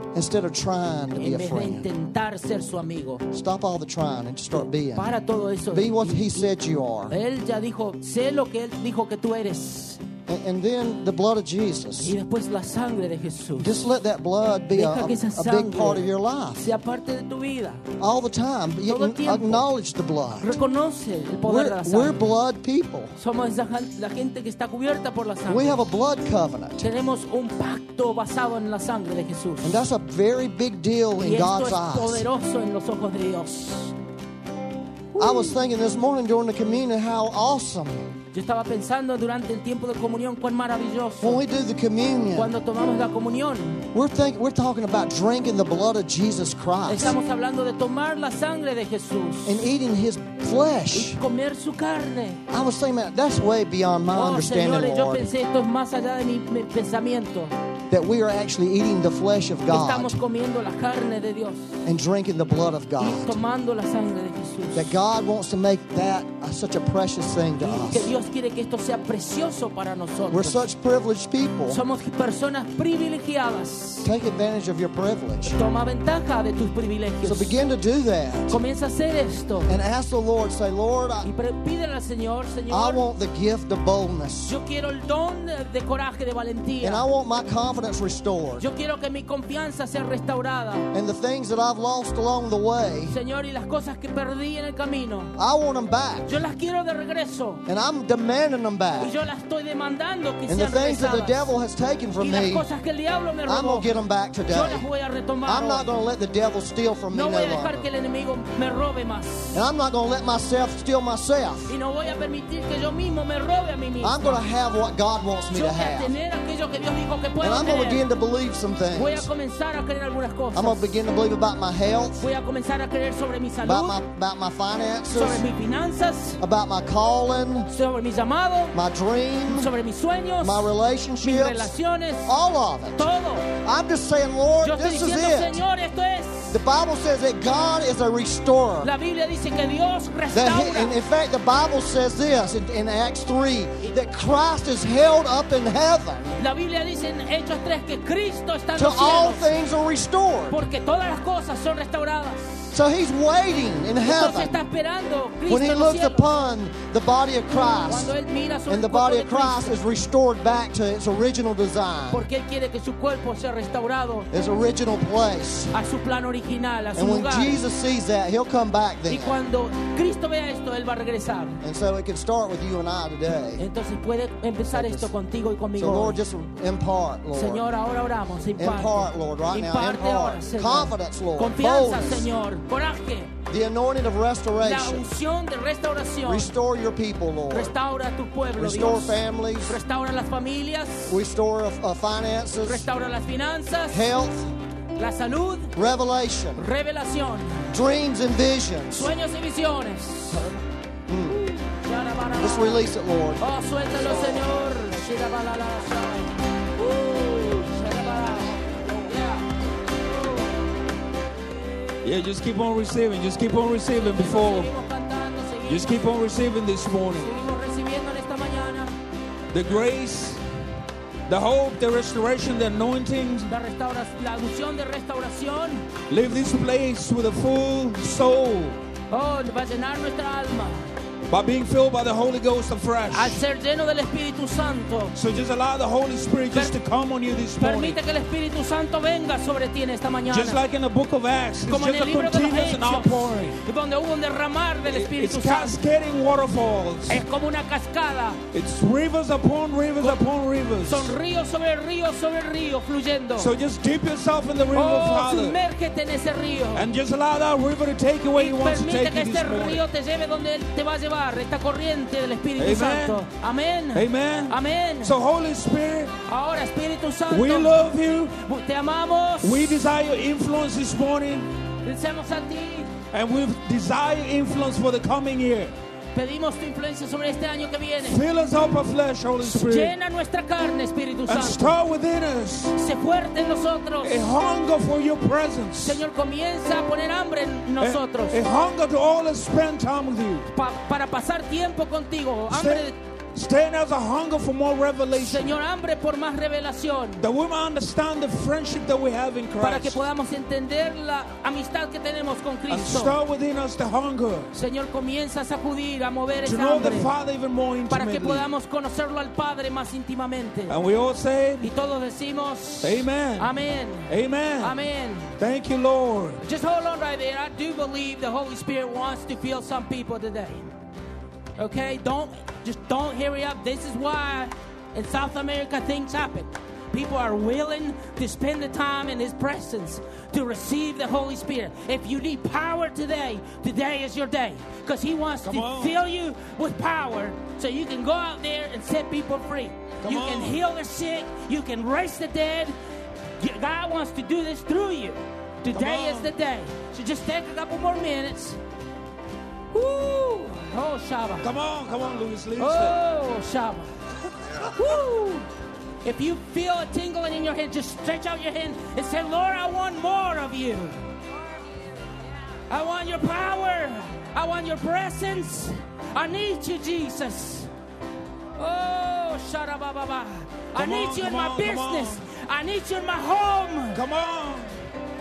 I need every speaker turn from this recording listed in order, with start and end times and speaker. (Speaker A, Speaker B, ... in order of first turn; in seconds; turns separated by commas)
Speaker A: 0.1-1.9, Speaker B: 1.1-3.2, Speaker A: 3.3-5.1, Speaker B: 4.5-6.5, Speaker A: 5.7-7.2, Speaker B: 7.1-10.0, Speaker A: 10.3-12.1, Speaker B: 12.0-13.8, Speaker A: 13.6-16.7, Speaker B: 14.7-17.8, Speaker A: 18.0-20.5, Speaker B: 18.9-19.7, Speaker B: 20.4-22.2, Speaker A: 21.4-23.1, Speaker B: 23.2-25.8, Speaker A: 25.5-26.9, Speaker B: 26.8-29.8, Speaker A: 29.6-32.2, Speaker B: 31.2-34.0, Speaker B: 35.1-35.6, Speaker A: 35.2-38.1, Speaker B: 38.3-41.4, Speaker A: 41.2-42.5, Speaker B: 42.3-43.9, Speaker A: 43.9-47.1, Speaker B: 46.9-49.6, Speaker A: 49.5-51.2, Speaker B: 50.9-52.4, Speaker A: 52.5-55.2, Speaker B: 54.1-57.5, Speaker A: 57.9-60.2, Speaker B: 59.7-61.8, Speaker A: 61.8-63.4, Speaker B: 63.0-65.0, Speaker A: 64.7-68.1, Speaker B: 67.6-70.6, Speaker A: 70.3-71.8, Speaker B: 71.7-74.1, Speaker A: 74.0-75.6, Speaker B: 75.5-77.5, Speaker A: 77.2-78.5, Speaker B: 78.5-79.7, Speaker A: 79.7-81.3, Speaker B: 81.2-83.1, Speaker A: 82.7-84.5, Speaker B: 84.5-87.0, Speaker A: 86.8-88.7, Speaker B: 88.6-90.9, Speaker A: 90.9-93.2, Speaker B: 93.1-95.3, Speaker A: 95.3-96.4, Speaker B: 96.2-97.6, Speaker A: 97.7-99.1, Speaker B: 99.0-101.5, Speaker A: 100.5-102.7, Speaker B: 102.2-103.9, Speaker A: 103.5-104.8, Speaker B: 104.5-105.9, Speaker A: 105.4-107.9, Speaker B: 107.1-109.6, Speaker A: 109.5-111.7, Speaker B: 111.7-114.4, Speaker A: 114.0-116.1, Speaker B: 115.5-118.1, Speaker A: 117.4-119.3, Speaker B: 118.9-121.0, Speaker A: 120.5-122.2, Speaker B: 122.2-124.0, Speaker A: 123.6-125.4, Speaker B: 125.1-126.4, Speaker A: 126.4-127.7, Speaker B: 127.7-128.8, Speaker A: 128.7-129.7, Speaker B: 129.4-132.3, Speaker A: 130.4-131.7, Speaker A: 132.2-135.6, Speaker B: 132.9-133.5, Speaker B: 134.6-136.6, Speaker A: 136.5-138.9, Speaker B: 138.8-141.0, Speaker A: 140.3-146.4, Speaker B: 146.4-149.5, Speaker A: 148.7-150.6, Speaker B: 150.5-152.8, Speaker A: 152.7-154.6, Speaker B: 154.0-156.3, Speaker A: 155.5-158.1, Speaker B: 157.7-159.8, Speaker A: 158.7-162.3, Speaker B: 162.1-164.3, Speaker A: 164.3-165.7, Speaker B: 165.7-167.6, Speaker A: 166.9-169.4, Speaker B: 169.1-171.6, Speaker A: 171.6-173.6, Speaker B: 173.6-176.2, Speaker A: 174.7-175.1, Speaker A: 175.8-177.7, Speaker B: 177.3-183.4, Speaker A: 178.6-182.3, Speaker A: 183.5-185.1, Speaker B: 184.6-186.5, Speaker A: 186.2-187.7, Speaker B: 187.5-191.2, Speaker A: 188.6-189.7, Speaker A: 191.1-192.9, Speaker B: 192.6-194.1, Speaker A: 193.9-194.5, Speaker B: 194.9-195.8, Speaker A: 195.7-196.7, Speaker B: 196.6-197.8, Speaker A: 197.7-199.1, Speaker B: 198.9-200.5, Speaker A: 200.3-201.4, Speaker B: 201.3-202.8, Speaker A: 202.4-203.5, Speaker B: 203.4-209.5, Speaker B: 210.0-210.5, Speaker B: 211.6-212.1, Speaker C: 212.0-214.7, Speaker B: 213.9-216.0, Speaker C: 215.7-217.3, Speaker B: 217.1-218.9, Speaker C: 219.5-220.4, Speaker C: 221.3-223.5, Speaker B: 223.5-225.9, Speaker C: 226.1-228.8, Speaker B: 229.1-230.9, Speaker C: 231.3-233.4, Speaker B: 233.1-235.2, Speaker C: 235.1-238.0, Speaker B: 237.6-240.6, Speaker C: 240.3-243.6, Speaker B: 241.7-245.8, Speaker C: 244.9-247.2, Speaker B: 247.1-248.4, Speaker C: 248.5-251.1, Speaker B: 250.8-253.5, Speaker C: 253.4-255.6, Speaker B: 254.7-256.9, Speaker C: 256.7-259.8, Speaker B: 258.4-265.2, Speaker C: 262.6-263.2, Speaker C: 263.9-266.2, Speaker B: 266.2-269.8, Speaker C: 267.3-268.4, Speaker C: 269.4-271.5, Speaker B: 271.8-273.0, Speaker C: 273.1-275.7, Speaker B: 276.1-278.2, Speaker C: 278.0-279.9, Speaker B: 279.4-281.8, Speaker C: 281.3-282.8, Speaker B: 282.7-284.2, Speaker C: 284.0-286.0, Speaker B: 285.8-288.4, Speaker C: 287.8-290.5, Speaker B: 290.5-293.0, Speaker C: 292.5-295.5, Speaker B: 295.1-297.2, Speaker C: 297.2-300.0, Speaker B: 299.6-303.2, Speaker C: 302.7-304.5, Speaker B: 304.5-307.1, Speaker C: 306.4-308.5, Speaker B: 307.9-310.8, Speaker C: 310.7-311.7, Speaker B: 311.6-315.4, Speaker C: 312.8-313.5, Speaker C: 314.1-314.8, Speaker C: 315.4-316.4, Speaker B: 316.4-320.7, Speaker B: 321.6-342.8, Speaker C: 335.4-335.9, Speaker C: 340.0-340.6, Speaker B: 343.4-348.6, Speaker C: 345.7-346.3, Speaker B: 349.7-351.5, Speaker C: 351.4-352.9, Speaker B: 352.6-353.9, Speaker B: 354.6-355.5, Speaker B: 356.0-361.0, Speaker B: 362.5-367.7, Speaker B: 368.6-374.0, Speaker C: 370.7-372.2, Speaker C: 373.9-374.7